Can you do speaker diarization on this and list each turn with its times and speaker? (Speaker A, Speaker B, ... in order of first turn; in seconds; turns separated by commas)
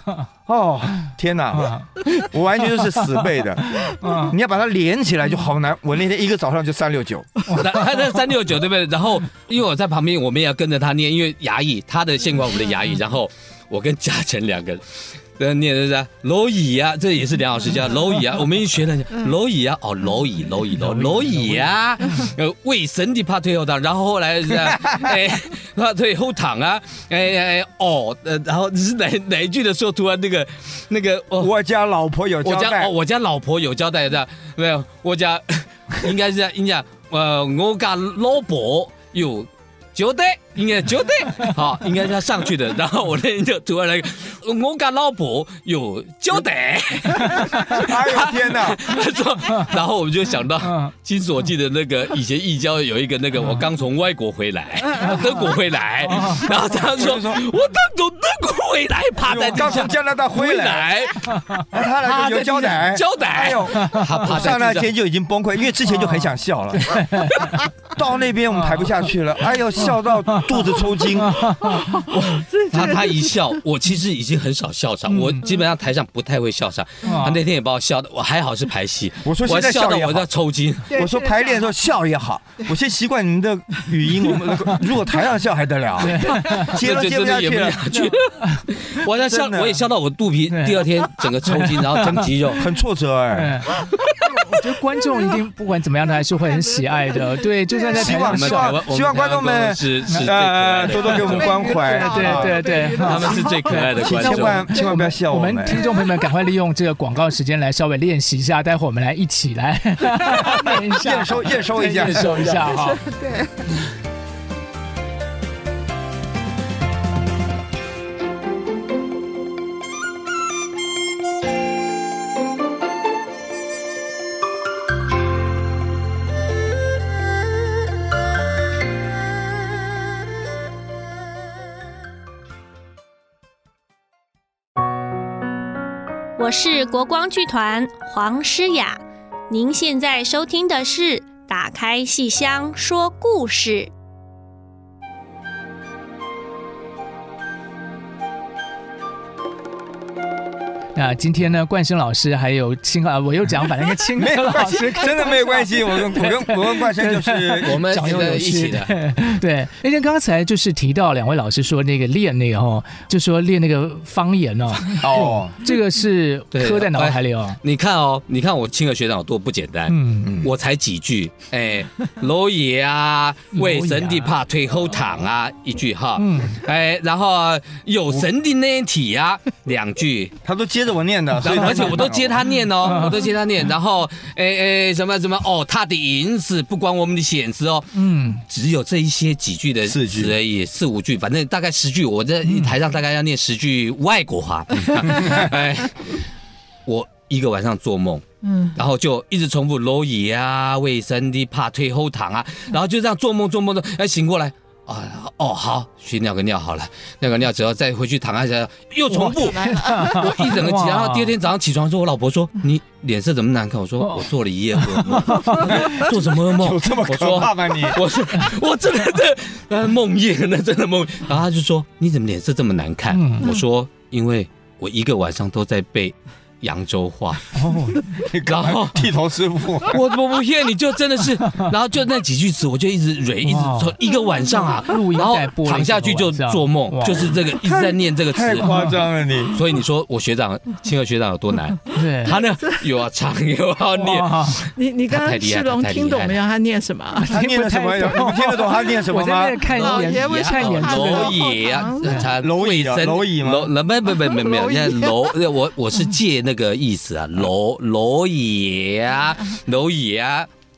Speaker A: 0.5-7.3, Speaker B: 1.6-1.9, Speaker B: 3.8-4.4, Speaker C: 7.5-14.8, Speaker C: 15.4-31.5, Speaker B: 20.8-21.7, Speaker A: 31.4-32.9, Speaker C: 32.4-64.9, Speaker B: 47.3-47.6, Speaker A: 47.6-48.8, Speaker B: 50.6-50.9, Speaker B: 56.1-56.5, Speaker A: 56.9-57.5, Speaker A: 59.2-61.0, Speaker A: 61.7-67.3, Speaker B: 65.9-66.3, Speaker B: 66.8-67.6, Speaker A: 67.9-71.4, Speaker B: 68.5-69.1, Speaker B: 71.2-72.0, Speaker D: 71.7-73.4, Speaker C: 72.0-81.0, Speaker B: 75.1-75.5, Speaker B: 77.0-77.4, Speaker A: 79.2-80.3, Speaker D: 80.9-81.8, Speaker A: 80.9-87.8, Speaker B: 84.5-84.8, Speaker B: 86.0-86.7, Speaker C: 86.6-92.7, Speaker B: 87.9-88.6, Speaker A: 89.2-89.8, Speaker B: 90.5-90.8, Speaker B: 91.4-92.3, Speaker A: 92.0-93.6, Speaker B: 93.3-93.7, Speaker B: 94.5-98.7, Speaker D: 96.4-98.1, Speaker A: 97.9-102.7, Speaker C: 98.0-101.6, Speaker D: 101.0-104.0, Speaker B: 101.8-113.0, Speaker C: 103.0-104.7, Speaker A: 103.9-105.8, Speaker D: 105.7-106.2, Speaker A: 110.5-112.5, Speaker C: 112.0-112.6, Speaker D: 112.7-113.7, Speaker E: 136.4-143.9, Speaker B: 150.9-167.6, Speaker A: 154.2-158.2, Speaker C: 157.7-158.9, Speaker A: 165.0-165.6, Speaker C: 166.5-180.3, Speaker B: 169.9-170.3, Speaker A: 170.2-170.5, Speaker B: 173.5-174.3, Speaker B: 176.2-176.6, Speaker A: 180.4-182.5, Speaker C: 181.4-196.2, Speaker B: 182.8-183.2, Speaker B: 187.9-188.4, Speaker A: 189.8-190.3, Speaker B: 192.5-192.7, Speaker C: 196.9-227.5, Speaker D: 209.1-210.3, Speaker B: 209.7-211.3, Speaker B: 214.0-214.3, Speaker B: 214.8-215.8, Speaker A: 215.7-218.0, Speaker B: 223.1-223.5, Speaker B: 227.6-228.0, Speaker A: 227.8-230.0, Speaker C: 228.4-229.1, Speaker C: 229.9-238.7, Speaker B: 233.4-234.0, Speaker B: 234.8-237.3, Speaker A: 237.6-239.6, Speaker B: 238.6-239.0, Speaker C: 239.5-246.4, Speaker B: 241.9-242.4, Speaker B: 244.0-244.6, Speaker D: 244.8-247.3, Speaker B: 247.2-251.4, Speaker A: 247.3-249.7, Speaker D: 249.7-252.2, Speaker C: 249.8-260.5, Speaker A: 252.3-253.7, Speaker D: 254.1-255.3